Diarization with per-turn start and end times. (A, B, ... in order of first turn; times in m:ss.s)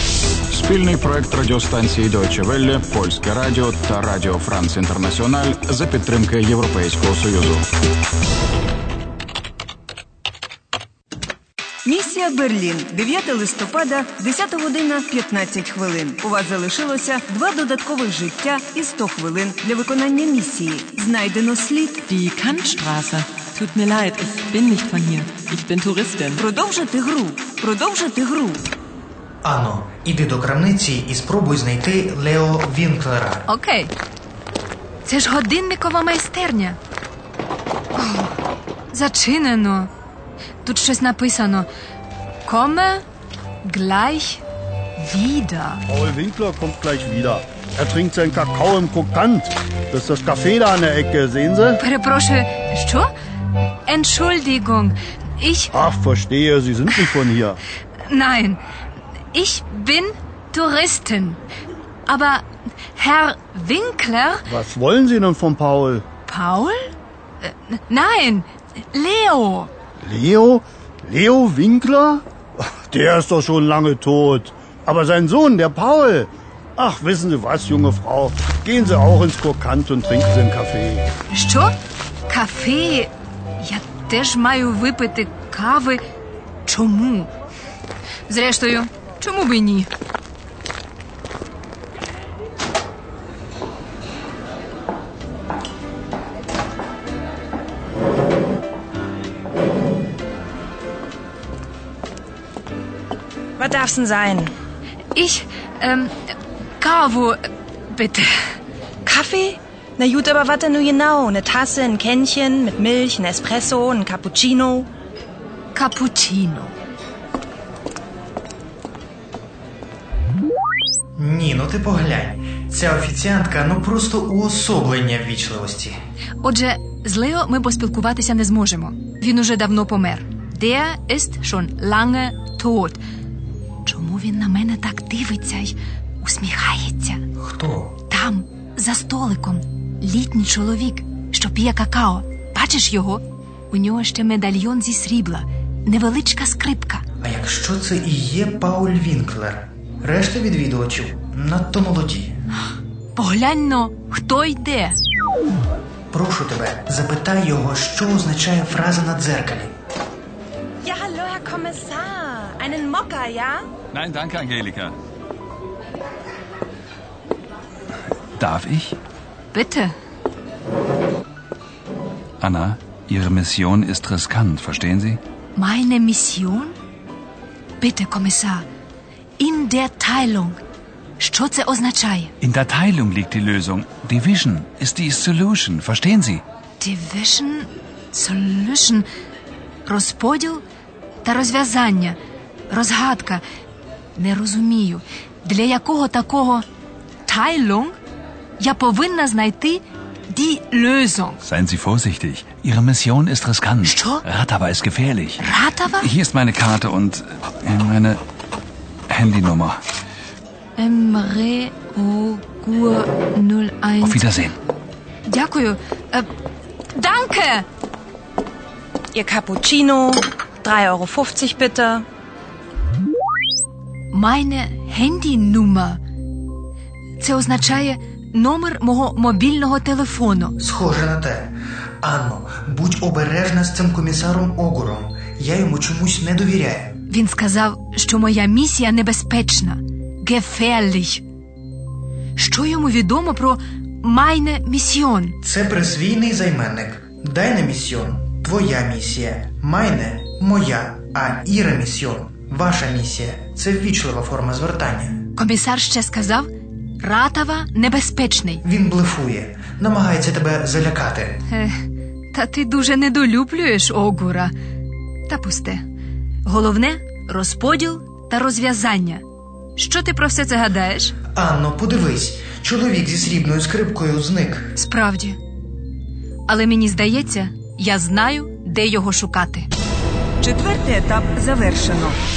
0:00.5-0:07.7 A
0:11.8-0:22.0 B
0:22.1-0:26.4 C
0:26.4-0:28.6 B
0:29.4-0:33.5 D
0:33.5-0:33.9 E
0:35.0-0:36.8 E
0:38.0-0:38.4 E
0:38.9-0:39.9 E
0:40.6-0:41.7 E
0:42.4-0:43.0 E
0:43.6-0:44.4 E
0:45.0-0:45.8 E
0:45.9-0:51.8 F
0:51.8-0:53.1 E
0:53.9-0:55.7 E
0:55.7-0:57.6 F
0:58.1-0:58.6 E
0:59.3-1:01.4 E
1:02.1-1:04.5 E
1:04.5-1:06.0 F
1:06.3-1:06.9 E
1:07.4-1:09.7 E
1:10.0-1:12.2 F
1:12.9-1:21.1 F
1:21.3-1:21.7 E
1:22.3-1:26.0 E
1:26.7-1:27.3 E
1:28.3-1:29.9 E
1:43.6-1:44.5 G
1:45.2-1:46.1 E
1:46.8-1:48.3 E
1:49.1-1:54.9 G
1:55.7-1:56.7 E
2:01.2-2:06.0 D
2:06.4-2:13.0 E
2:13.8-2:17.2 E
2:17.4-2:18.0 D
2:18.1-2:27.0 E
2:27.2-2:32.3 D
2:33.2-2:35.0 E
2:36.1-2:39.7 D
2:40.8-2:43.7 G
2:43.9-2:44.9 H
2:48.4-2:49.0 H
2:49.5-2:49.9 E
2:52.4-2:55.2 H
2:55.6-2:56.8 E
2:57.8-2:58.6 E
2:59.4-3:00.6 E
3:01.2-3:02.3 E
3:02.4-3:06.4 H
3:06.8-3:09.0 E
3:09.9-3:10.6 E
3:11.2-3:12.2 E
3:12.7-3:13.4 E
3:14.2-3:16.6 E
3:17.3-3:18.0 E
3:18.6-3:21.4 E
3:21.4-3:25.5 H
3:23.8-3:24.2 E
3:25.4-3:26.1 E
3:26.0-3:28.2 H
3:29.1-3:29.8 H
3:30.8-3:34.2 E
3:34.0-3:34.6 H
3:35.3-3:36.3 E
3:37.0-3:37.7 E
3:39.1-3:42.0 G
3:44.1-3:46.0 E
3:47.2-3:50.6 E
3:50.6-3:57.0 D
3:57.1-4:01.2 E
4:02.4-4:05.4 E
4:05.4-4:15.2 D
4:15.4-4:18.6 E
4:18.6-4:21.4 D
4:21.5-4:21.8 E
4:22.3-4:24.5 E
4:25.3-4:25.8 E
4:26.4-4:29.2 E
4:29.8-4:31.2 E
4:31.3-4:34.8 D
4:34.8-4:35.4 E
4:36.5-4:39.7 E
4:40.4-4:42.1 B